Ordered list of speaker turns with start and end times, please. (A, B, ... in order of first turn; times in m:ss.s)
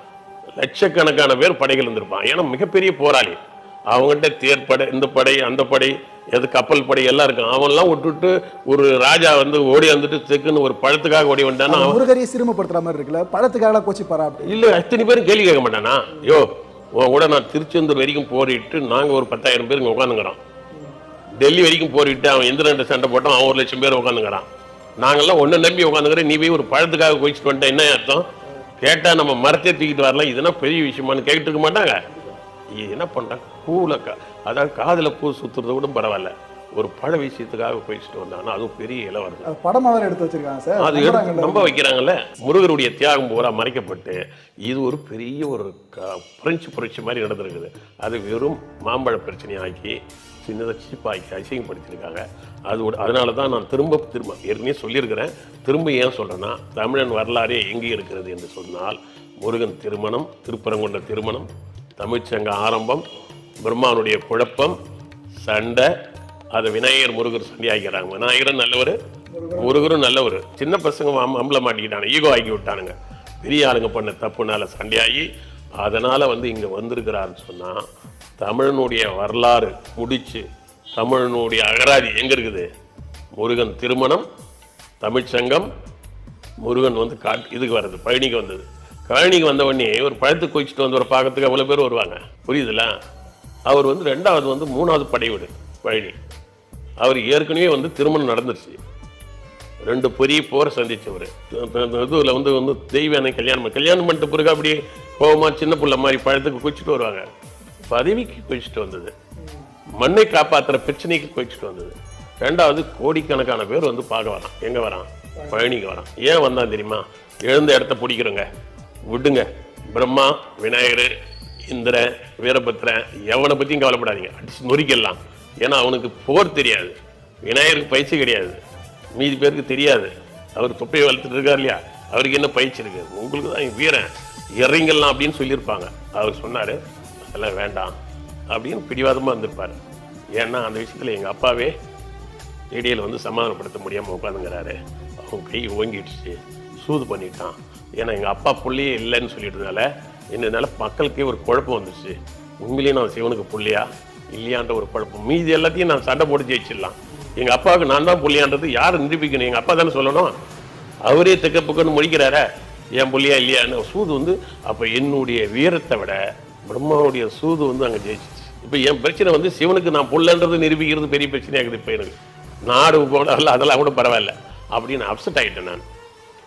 0:00.6-0:03.4 A
0:03.9-0:12.0 A
0:11.7-0:14.5 B
0:14.4-0:20.4 A
0:21.4-0:24.4 A
0:25.0-0:28.2 A
0:28.8-0:32.0 A
0:32.8-0:39.5 A
0:39.5-0:41.8 B
0:40.8-1:03.0 A
1:03.6-1:04.8 A
1:05.4-1:05.9 A
1:06.5-1:09.0 A
1:09.3-1:09.9 B
1:09.5-1:15.3 A
1:15.8-1:17.8 A
1:18.4-1:20.4 A
1:21.0-1:22.7 A
1:23.4-1:24.2 A
1:25.0-1:25.7 A
1:26.6-1:32.9 A
1:33.7-1:36.2 A
1:37.0-1:38.8 A
1:39.9-1:47.2 A
1:47.8-1:49.1 A
1:50.0-1:58.5 A
1:55.4-1:55.7 B
1:59.1-2:01.1 A
2:01.7-2:08.6 A
2:09.2-2:14.1 A
2:14.6-2:17.9 A
2:18.5-2:19.8 A
2:20.4-2:21.7 A
2:22.7-2:40.4 A
2:41.0-2:42.4 A
2:43.0-2:52.2 A
2:52.7-2:55.8 A